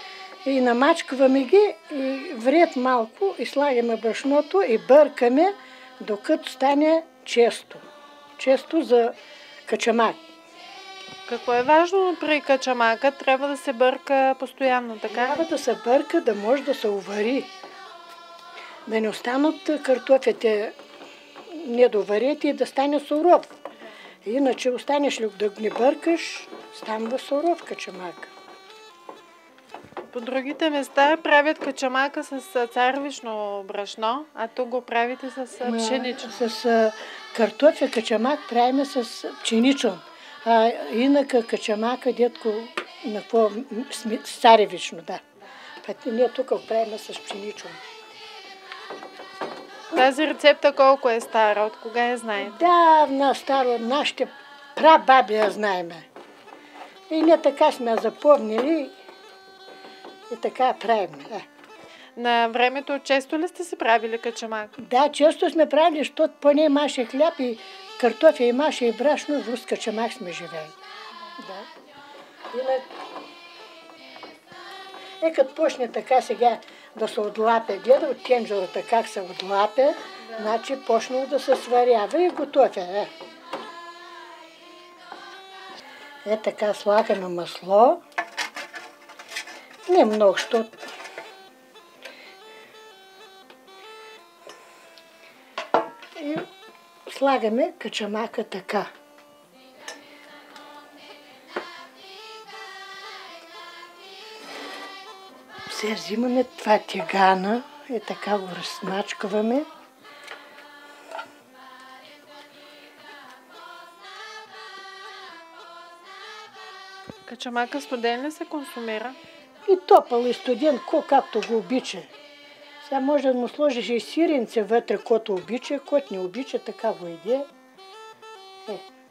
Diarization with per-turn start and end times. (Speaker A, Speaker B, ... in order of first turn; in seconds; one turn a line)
Speaker A: 0.5-7.8
Speaker A: 8.4-10.2
Speaker B: 11.3-15.5
Speaker A: 15.1-17.5
Speaker A: 18.9-20.8
Speaker A: 21.5-23.5
Speaker A: 24.2-28.3
Speaker B: 30.1-36.4
Speaker A: 35.6-45.2
Speaker A: 45.8-47.8
Speaker B: 49.9-52.6
Speaker A: 52.4-56.0
Speaker A: 57.1-58.9
Speaker A: 60.3-61.4
Speaker B: 62.2-64.7
Speaker A: 64.8-70.8
Speaker A: 71.4-71.7
Speaker A: 72.5-72.9
Speaker A: 75.2-83.1
Speaker A: 86.2-88.0
Speaker A: 89.9-90.8
Speaker A: 96.2-96.5
Speaker A: 97.1-98.9
Speaker A: 105.7-109.7
Speaker B: 117.3-119.2
Speaker A: 119.7-122.1
Speaker A: 122.8-127.5